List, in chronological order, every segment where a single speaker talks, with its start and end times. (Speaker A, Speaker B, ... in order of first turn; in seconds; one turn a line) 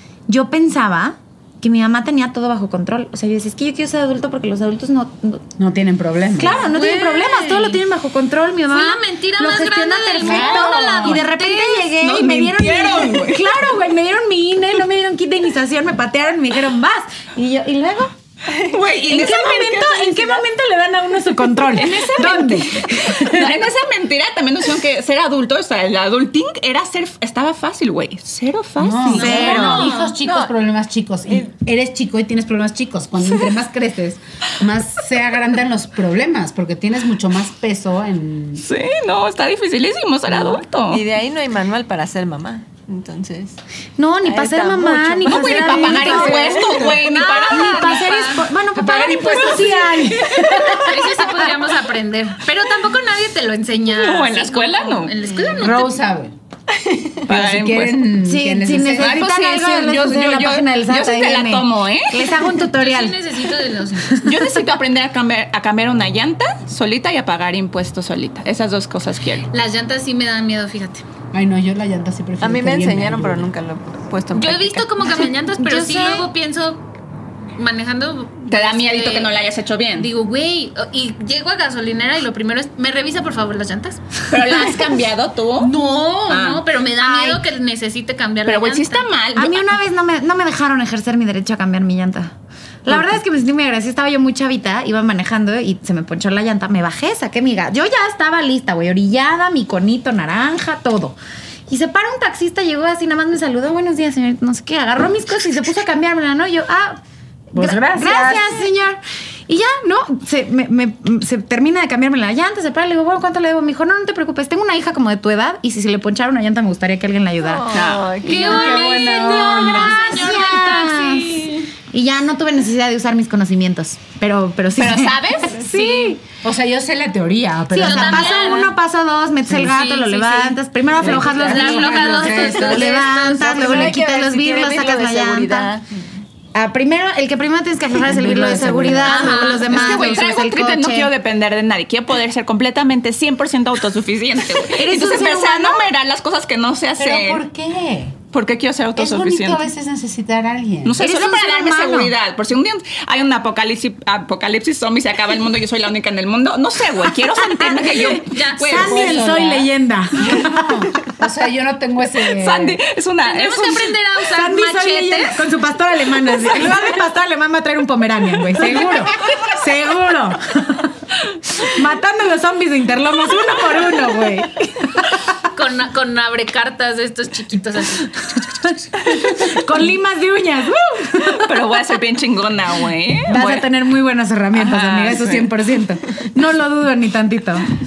Speaker A: 0.3-5.4
Speaker B: 5.6-6.6
Speaker A: 6.3-18.1
Speaker C: 6.5-7.8
Speaker C: 8.7-11.9
Speaker B: 10.2-11.2
Speaker D: 12.0-13.5
Speaker D: 18.6-20.4
Speaker A: 18.9-23.7
Speaker D: 21.7-30.0
Speaker B: 28.8-38.6
Speaker A: 29.1-29.9
Speaker C: 29.4-30.1
Speaker E: 30.2-30.5
Speaker D: 38.6-41.0
Speaker E: 40.3-43.6
Speaker A: 44.0-46.9
Speaker E: 44.2-46.9
Speaker D: 45.2-47.9
Speaker B: 45.8-47.0
Speaker C: 46.8-48.5
Speaker A: 47.5-51.0
Speaker B: 48.7-51.0
Speaker C: 50.7-56.0
Speaker D: 53.9-55.1
Speaker B: 55.6-56.3
Speaker E: 56.8-57.2
Speaker D: 57.3-58.1
Speaker B: 57.3-59.3
Speaker A: 58.2-63.2
Speaker D: 59.0-62.4
Speaker C: 62.6-64.3
Speaker A: 64.1-64.5
Speaker D: 64.2-69.5
Speaker C: 69.5-71.0
Speaker B: 71.3-73.5
Speaker E: 72.4-75.0
Speaker C: 74.3-76.9
Speaker A: 75.5-76.3
Speaker C: 77.5-79.3
Speaker D: 78.5-80.1
Speaker C: 79.9-84.7
Speaker D: 84.3-85.7
Speaker C: 85.6-89.1
Speaker D: 86.3-87.4
Speaker D: 88.5-89.8
Speaker A: 89.3-92.3
Speaker A: 92.8-101.2
Speaker A: 101.7-107.0
Speaker B: 107.5-108.5
Speaker A: 107.5-126.2
Speaker E: 117.4-118.7
Speaker D: 117.7-118.2
Speaker C: 118.2-121.7
Speaker B: 118.3-120.1
Speaker D: 124.8-125.9
Speaker B: 126.4-128.5
Speaker A: 127.7-135.7
Speaker C: 127.8-128.7
Speaker C: 129.6-130.6
Speaker B: 130.9-133.0
Speaker C: 131.1-133.7
Speaker E: 133.3-136.0
Speaker A: 136.5-141.1
Speaker B: 138.0-139.5
Speaker D: 139.0-147.4
Speaker C: 139.1-140.2
Speaker A: 144.7-145.9
Speaker B: 147.0-148.2
Speaker D: 148.3-149.7
Speaker B: 148.9-151.0
Speaker D: 150.8-159.2
Speaker A: 151.0-152.1
Speaker A: 157.6-160.9
Speaker C: 157.9-159.3
Speaker B: 158.7-159.7
Speaker B: 160.2-162.8
Speaker D: 162.2-163.9
Speaker C: 163.2-165.4
Speaker A: 164.3-175.1
Speaker C: 175.5-178.2
Speaker A: 178.3-181.6
Speaker D: 181.2-183.7
Speaker A: 183.3-187.7
Speaker D: 184.6-185.4
Speaker B: 184.9-185.5